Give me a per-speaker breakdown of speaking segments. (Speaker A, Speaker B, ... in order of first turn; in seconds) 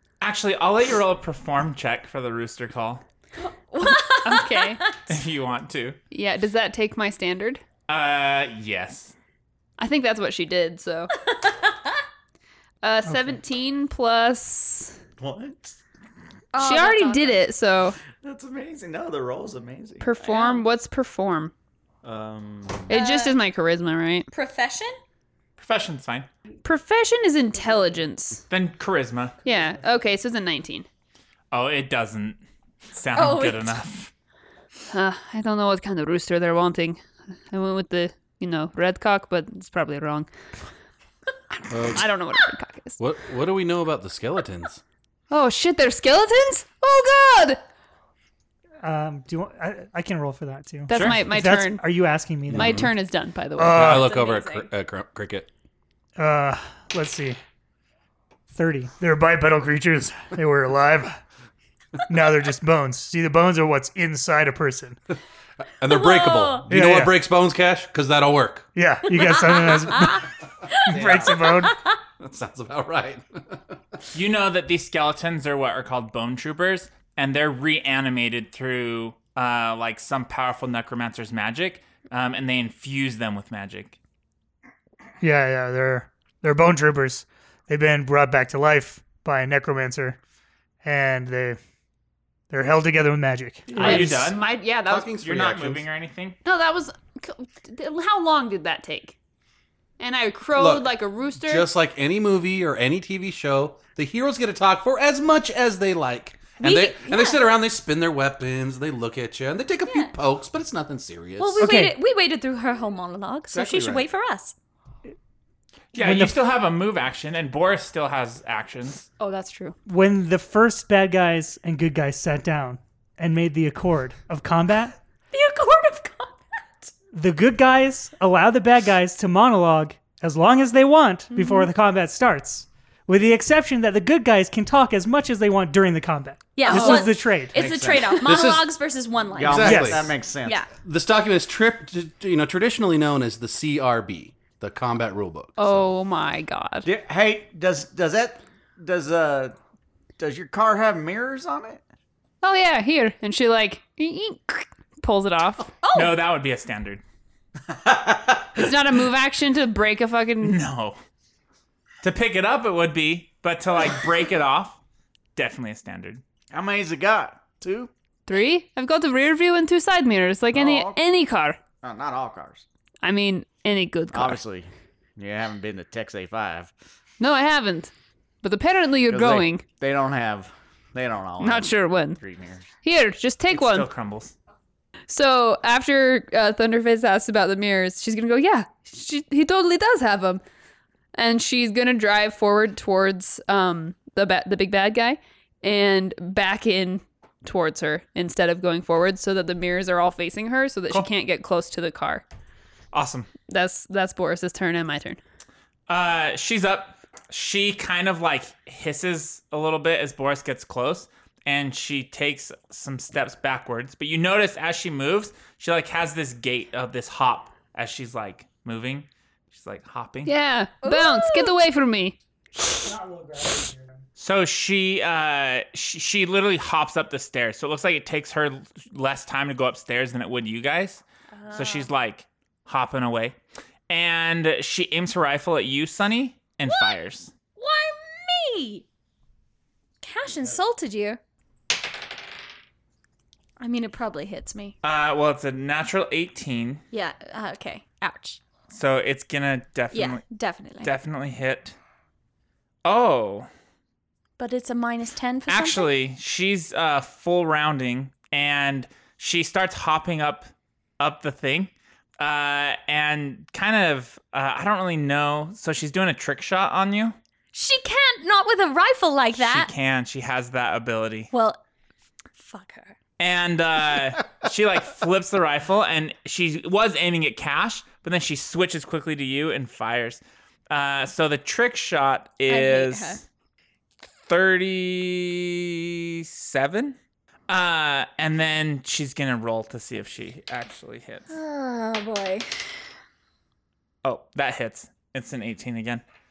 Speaker A: 0.2-3.0, 5.1-6.0, 7.9-9.2, 25.6-26.3, 28.5-29.4, 31.5-32.4, 32.9-34.1, 50.9-51.2, 74.1-84.0, 93.8-94.4, 95.1-96.4, 115.9-119.1, 155.9-157.0, 160.4-161.0, 162.0-164.8, 165.4-166.2, 183.5-184.3, 202.9-203.3, 205.9-220.3, 224.2-233.4, 233.9-237.3, 244.8-246.8, 248.7-250.2, 250.8-251.8, 252.8-253.5, 255.5-260.5, 261.0-267.2, 269.4-271.3, 273.2-283.2, 284.3-287.0, 287.5-291.3, 294.0-296.0
Speaker B: 3.4-4.9, 11.3-11.9, 16.5-17.5, 20.2-20.6, 22.9-23.4, 24.3-25.0, 33.1-33.8, 53.9-54.7, 65.9-66.7, 69.5-70.9, 71.4-72.0, 106.6-107.4, 109.9-110.2, 111.4-114.5, 125.3-126.9, 131.3-131.7, 136.6-139.8, 155.8-156.2, 220.8-221.7, 231.3-231.9, 236.7-237.0, 237.6-238.8, 240.0-241.2, 243.6-244.8, 246.9-248.4, 249.9-250.9, 254.4-255.9, 267.5-269.7, 271.3-271.6, 272.4-272.9, 282.5-283.2, 291.3-292.8
Speaker C: 4.0-4.8, 6.1-7.6, 9.8-11.1, 12.8-15.0, 16.6-18.0, 20.0-21.5, 22.9-24.3, 26.6-28.4, 29.4-30.9, 34.9-40.3, 41.5-43.0, 45.3-47.6, 50.9-54.0, 93.8-95.1, 96.4-99.2, 100.0-101.7, 119.2-119.8, 145.6-146.9, 152.4-155.7, 158.6-160.6, 168.3-171.6, 173.0-174.4, 177.2-177.9, 178.4-179.7, 181.4-182.2, 182.8-183.9, 185.1-190.4, 191.2-202.2, 203.5-205.2, 220.2-222.9
Speaker D: 13.0-13.4, 48.8-52.9, 53.6-54.1, 56.2-57.4, 58.5-61.2, 62.1-65.0, 66.7-67.1, 68.8-70.3, 70.9-71.8, 85.2-90.2, 90.8-91.6, 92.5-94.3, 111.6-112.0, 116.0-116.5, 119.9-125.0, 127.1-137.6, 139.6-140.2, 222.8-224.0
Speaker E: 15.2-15.8, 18.1-20.2, 22.0-22.9, 113.5-114.1, 136.7-137.0, 137.5-138.3, 139.4-140.6, 146.8-149.6, 150.2-151.8, 157.7-158.8, 166.5-167.9, 170.5-171.0, 171.8-172.7, 174.1-176.7, 179.1-182.7
Speaker F: 41.7-42.1, 43.0-44.8, 52.5-52.9, 53.7-55.5, 65.8-68.7, 70.9-71.5, 72.2-74.0, 93.9-94.1, 94.9-95.9, 100.6-111.7, 138.2-138.7, 139.4-140.1, 140.8-145.8